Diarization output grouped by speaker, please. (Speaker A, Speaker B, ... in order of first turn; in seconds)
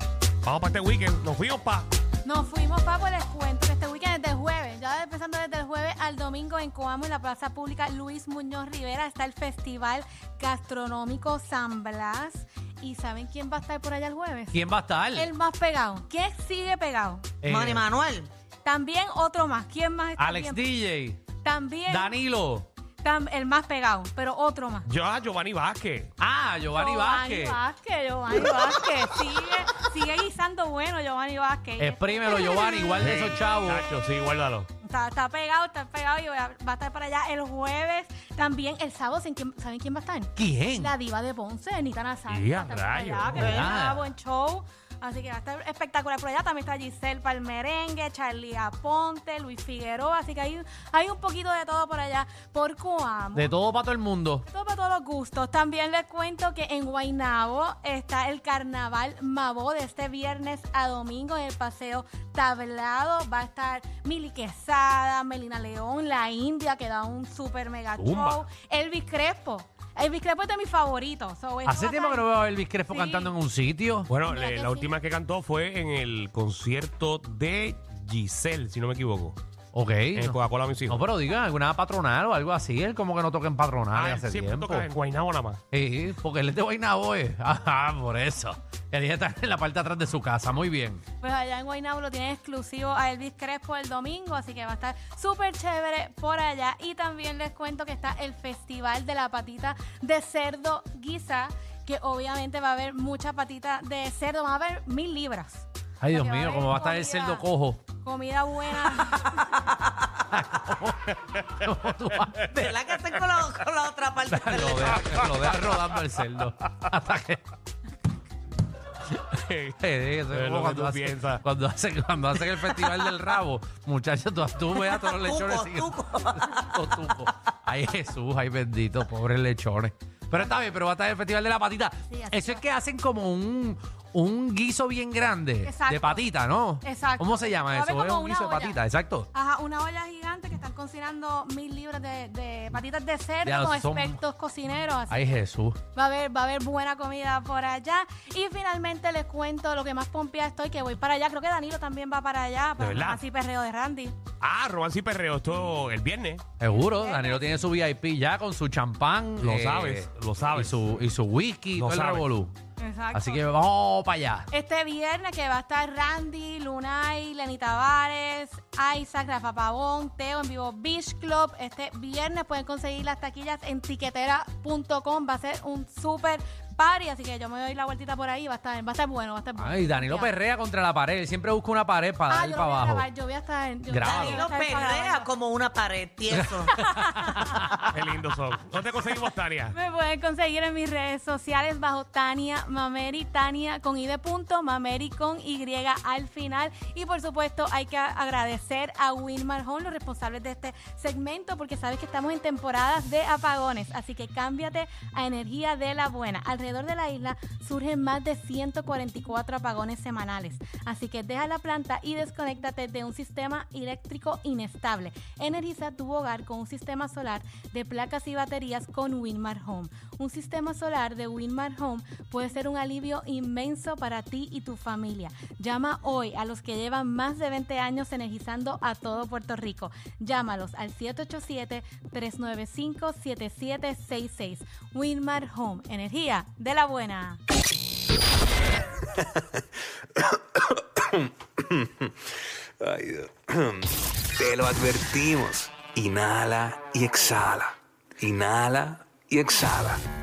Speaker A: 0.4-1.9, 24.9-26.1, 33.0-34.7, 42.3-43.7, 74.1-79.4, 80.1-81.0, 83.9-85.6, 119.3-119.8, 120.3-121.4, 152.8-153.2, 154.4-156.4, 159.4-160.8, 161.7-162.3, 187.9-189.7
Speaker B: 2.2-14.6, 15.1-17.3, 18.6-20.7, 21.4-22.2, 23.0-24.9, 26.7-33.2, 34.8-53.6, 54.4-72.3, 72.9-73.3, 74.2-74.9, 91.2-109.5, 132.1-132.6, 135.6-136.2, 136.8-138.8, 139.3-145.3, 145.9-154.1, 156.7-157.6, 162.8-163.5, 164.5-180.3, 182.3-185.3, 186.7-187.8, 189.7-237.4
Speaker C: 14.5-15.3, 17.4-17.9, 20.2-21.2, 21.9-22.6, 26.2-27.6, 31.8-33.8, 40.4-40.9, 43.3-44.1, 53.3-54.4, 68.0-68.4, 71.7-74.1, 79.7-84.8, 85.7-91.0, 106.0-107.8, 110.3-112.7, 114.3-117.4, 119.8-139.3, 143.4-144.2, 145.1-145.8, 156.6-162.5, 163.1-164.5, 179.6-183.1, 183.9-184.5, 186.3-187.6
Speaker D: 17.4-18.3, 112.5-115.2, 125.0-126.7, 184.0-186.8, 187.3-187.9
Speaker E: 240.2-242.1, 242.8-250.0